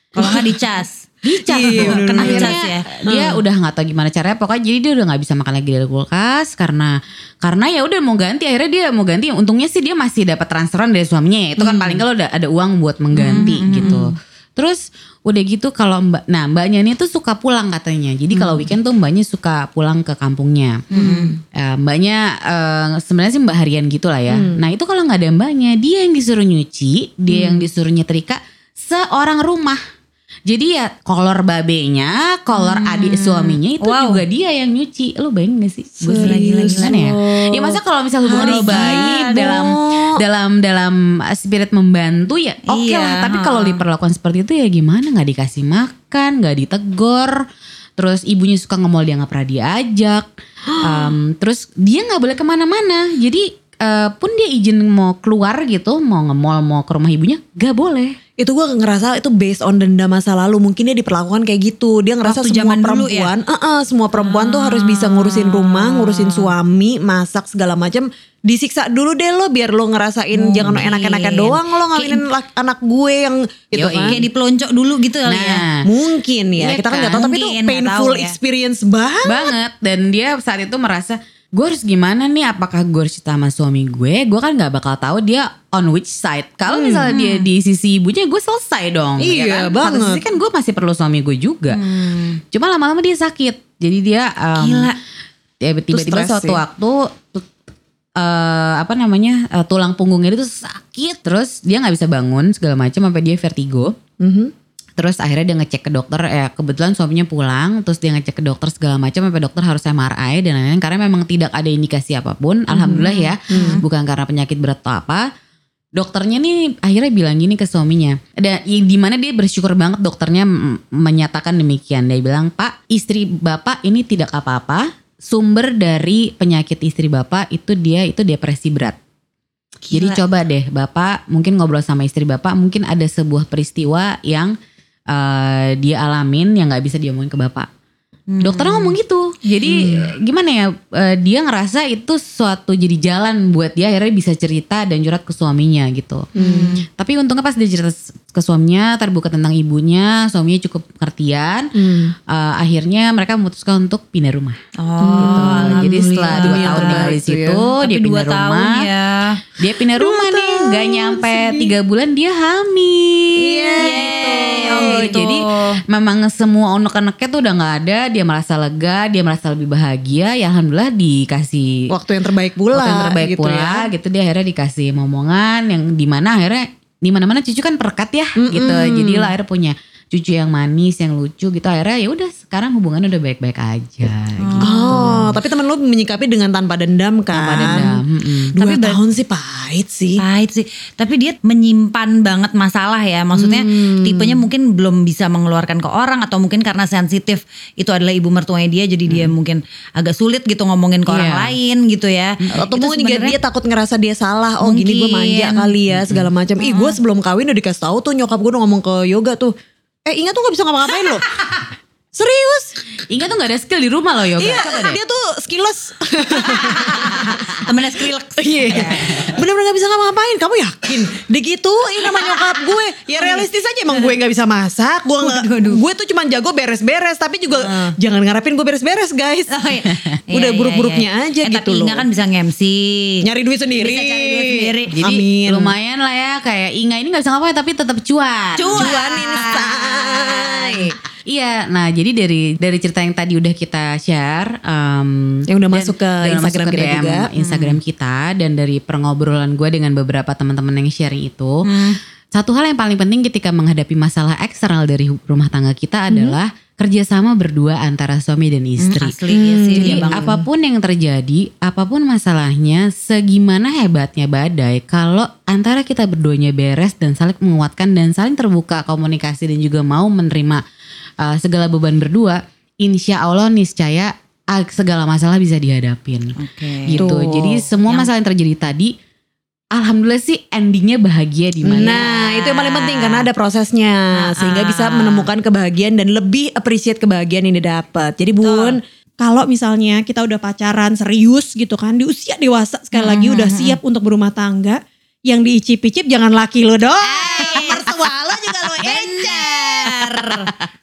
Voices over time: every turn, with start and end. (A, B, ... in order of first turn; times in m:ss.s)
0:00.2-0:01.0 A
0:00.2-0:00.5 B
0:01.2-0:20.8 C
0:01.3-0:03.4 B
0:01.6-0:02.8 A
0:11.6-0:12.0 A
0:13.1-0:14.1 A
0:18.3-0:18.7 A
0:20.9-0:21.4 A
0:21.0-0:21.3 B
0:21.5-0:29.8 C
0:24.3-0:24.6 B
0:27.3-0:27.7 A
0:30.5-0:47.4 C
0:32.5-0:34.2 A
0:36.0-0:40.2 B
0:36.1-0:36.9 A
0:38.4-0:39.1 A
0:42.6-0:43.8 A
0:48.0-0:50.2 C
0:50.7-0:51.1 B
0:50.8-0:58.2 C
0:58.4-1:14.2 B
1:02.2-1:03.3 A
1:04.1-1:06.5 A
1:10.3-1:12.3 A
1:13.7-1:14.2 C
1:14.0-1:15.6 A
1:15.2-1:15.8 C
1:15.8-1:19.5 B
1:16.6-1:17.2 C
1:17.1-1:18.4 A
1:19.2-1:31.8 C
1:26.7-1:27.1 B
1:27.1-1:27.5 A
1:29.2-1:30.2 B
1:31.7-1:32.4 A
1:32.5-1:34.9 C
1:34.6-1:35.0 A
1:35.6-1:37.4 C
1:35.9-1:36.6 B
1:38.2-1:43.9 C
1:44.2-1:44.5 B
1:45.0-1:55.3 C
1:52.7-1:53.8 B
1:52.9-1:53.3 A
1:55.9-2:09.0 C
2:09.9-2:10.2 A
2:09.9-2:14.5 C
2:15.1-2:17.7 C
2:18.3-2:19.0 A
2:18.4-2:26.3 C
2:19.6-2:20.0 B
2:26.4-2:26.8 A
2:26.4-2:26.7 B
2:26.9-2:31.7 C
2:31.7-2:32.1 B
2:32.3-2:34.6 C
2:34.8-2:37.2 A
2:35.0-2:37.6 B
2:35.2-2:38.9 C
2:37.7-2:39.4 A
2:39.6-2:44.0 C
2:39.9-2:41.7 B
2:43.4-2:45.2 B
2:43.8-2:45.8 A
2:44.5-2:51.8 C
2:51.9-2:53.9 B
2:52.7-3:05.3 C
2:58.4-2:59.3 B
3:04.4-3:05.2 A
3:04.6-3:08.0 B
3:07.3-3:08.5 C
3:08.5-3:10.2 B
3:08.6-3:09.0 A
3:10.2-3:23.4 A
3:13.3-3:14.4 B
3:19.1-3:19.3 C
3:21.1-3:21.6 C
3:22.6-3:29.5 B
3:24.6-3:25.8 A
3:25.9-3:26.3 C
3:26.6-3:27.0 A
3:30.0-3:31.4 B
3:32.1-3:32.8 B
3:33.1-3:35.0 C
3:34.3-3:49.5 B
3:36.4-3:39.2 A
3:42.0-3:42.5 A
3:43.1-3:44.2 A
3:45.2-3:45.8 A
3:47.5-3:47.9 A
3:49.5-3:55.0 A
3:50.3-3:52.0 B
3:53.2-3:55.7 B
3:54.9-3:59.0 C
3:58.6-4:00.9 A
3:58.7-4:00.9 B
4:01.3-4:19.2 C
4:05.5-4:07.3 B
4:07.4-4:07.8 A
4:11.6-4:12.0 A
4:18.8-4:20.4 A
4:19.3-4:20.4 B
4:19.8-4:30.6 C
4:31.2-4:36.3 C
4:36.4-4:37.1 A
4:36.9-4:38.9 C
4:37.0-4:37.7 B
4:39.7-4:42.1 C
4:41.6-4:48.8 B
4:41.8-4:43.3 A
4:44.1-4:45.3 A
4:48.4-4:48.8 A
4:49.2-4:57.1 D
4:52.9-4:53.8 A
4:57.0-4:58.1 A
4:57.1-5:00.4 B
4:58.8-5:00.6 A